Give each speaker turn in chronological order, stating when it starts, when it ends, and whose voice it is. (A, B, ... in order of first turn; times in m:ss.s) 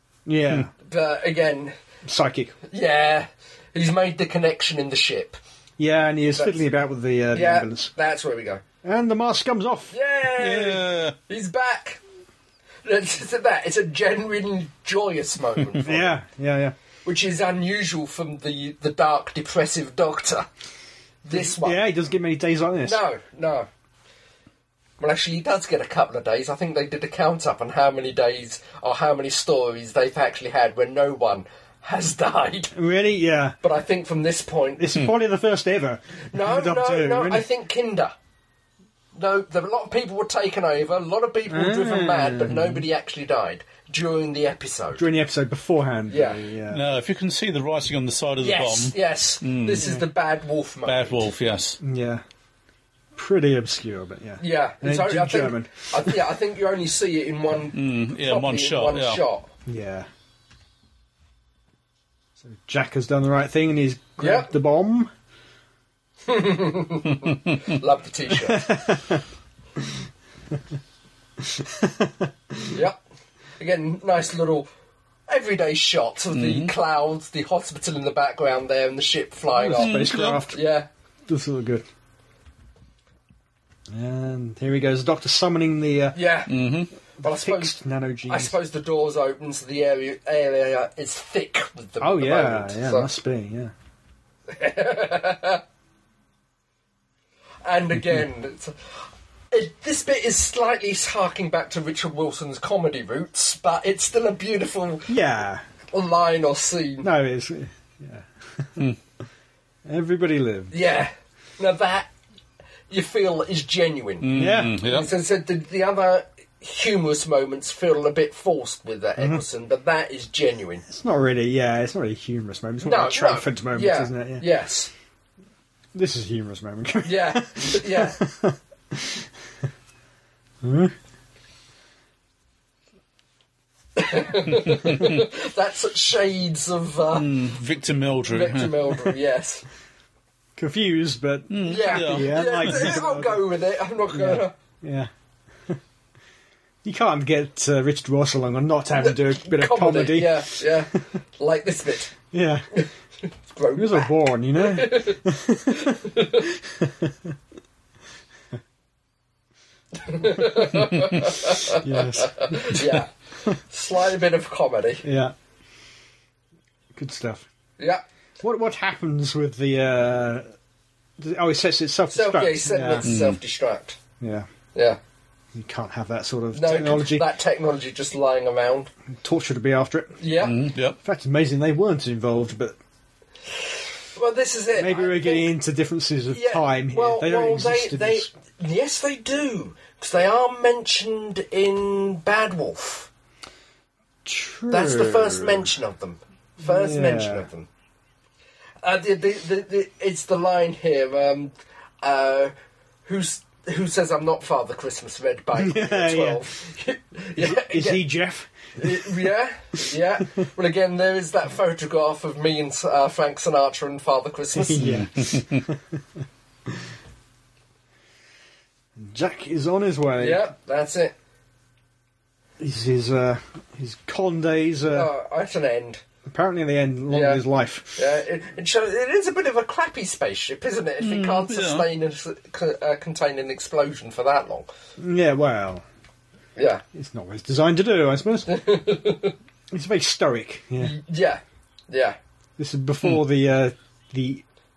0:00.3-0:00.7 A
0:00.8-0:01.8 B
0:02.0-0:02.6 A
0:02.7-0:05.4 B
0:05.8-0:07.9 A
0:06.3-0:06.6 B
0:07.3-0:08.6 B
0:08.8-0:09.9 A
0:09.9-0:12.0 B
0:10.4-0:11.2 C
0:12.8-0:16.2 B
0:15.8-0:16.8 A
0:17.0-0:20.5 B
0:21.2-0:21.8 B
0:21.3-0:23.0 A
0:22.8-0:23.7 B
0:25.0-0:32.7 B
0:32.7-0:33.6 A
0:33.6-0:34.9 B
0:34.8-0:37.4 A
0:36.3-0:38.1 B
0:39.2-0:45.0 B
0:41.5-0:42.8 A
0:45.0-0:46.8 A
0:46.1-0:46.4 B
0:46.7-0:49.9 C
0:48.4-0:51.3 B
0:50.8-0:51.8 C
0:51.8-0:52.2 A
0:53.2-0:56.2 A
0:54.4-0:59.5 B
0:57.7-0:59.2 C
0:59.7-1:00.1 A
1:02.4-1:05.1 A
1:04.2-1:04.5 B
1:06.3-1:08.8 B
1:08.4-1:09.2 A
1:11.4-1:12.8 A
1:12.7-1:13.0 B
1:13.6-1:14.7 B
1:15.3-1:20.9 B
1:16.3-1:16.7 C
1:19.5-1:20.6 A
1:19.8-1:20.4 C
1:21.3-1:21.8 A
1:23.9-1:26.2 A
1:26.1-1:26.6 B
1:26.5-1:26.9 C
1:27.2-1:33.1 B
1:27.2-1:28.6 A
1:32.0-1:33.7 A
1:34.5-1:35.6 B
1:37.6-1:38.8 B
1:39.5-1:45.1 B
1:45.1-1:45.6 A
1:45.9-1:47.1 B
1:47.0-1:48.9 A
1:49.9-1:50.7 A
1:50.7-1:52.1 B
1:52.9-2:00.8 B
1:54.2-1:55.1 C
1:54.3-1:54.8 A
1:59.2-1:59.4 A
2:00.9-2:04.5 A
2:02.8-2:04.9 B
2:05.9-2:09.3 A
2:07.0-2:08.2 B
2:10.6-2:11.0 A
2:14.0-2:17.4 B
2:17.1-2:19.1 C
2:18.3-2:19.6 B
2:20.6-2:23.4 A
2:21.5-2:22.9 C
2:21.6-2:24.5 B
2:24.1-2:25.1 A
2:26.8-2:31.0 A
2:29.0-2:32.2 B
2:32.3-2:32.8 A
2:32.7-2:36.5 B
2:33.8-2:37.4 A
2:40.0-2:45.0 B
2:41.4-2:43.0 A
2:45.0-2:45.4 A
2:46.9-2:47.5 A
2:48.4-2:50.5 A
2:51.2-2:53.1 A
2:52.1-2:54.0 B
2:53.0-2:53.4 C
2:54.2-2:54.5 A
2:54.7-2:55.0 B
2:55.5-2:57.3 A
2:56.5-2:58.9 B
2:59.2-3:00.2 A
3:00.2-3:00.7 B
3:00.4-3:01.0 C
3:01.0-3:02.8 A
3:04.2-3:05.5 B
3:04.8-3:08.3 A
3:06.3-3:13.1 B
3:14.2-3:15.7 A
3:14.7-3:17.7 B
3:16.6-3:17.5 A
3:18.8-3:22.5 B
3:23.1-3:28.1 B
3:25.6-3:26.4 A
3:27.4-3:29.2 A
3:28.8-3:35.0 B
3:34.6-3:36.9 A
3:34.8-3:35.7 C
3:39.0-3:40.5 A
3:40.2-3:41.1 B
3:42.6-3:45.1 A
3:44.9-3:46.0 B
3:46.3-3:48.2 A
3:47.1-3:47.4 B
3:48.0-3:54.7 B
3:51.0-3:51.9 C
3:55.0-3:55.8 A
3:56.6-3:56.8 B
3:56.9-3:58.6 A
3:58.5-3:59.4 B
3:59.7-4:01.0 A
4:00.8-4:02.2 B
4:02.6-4:04.4 A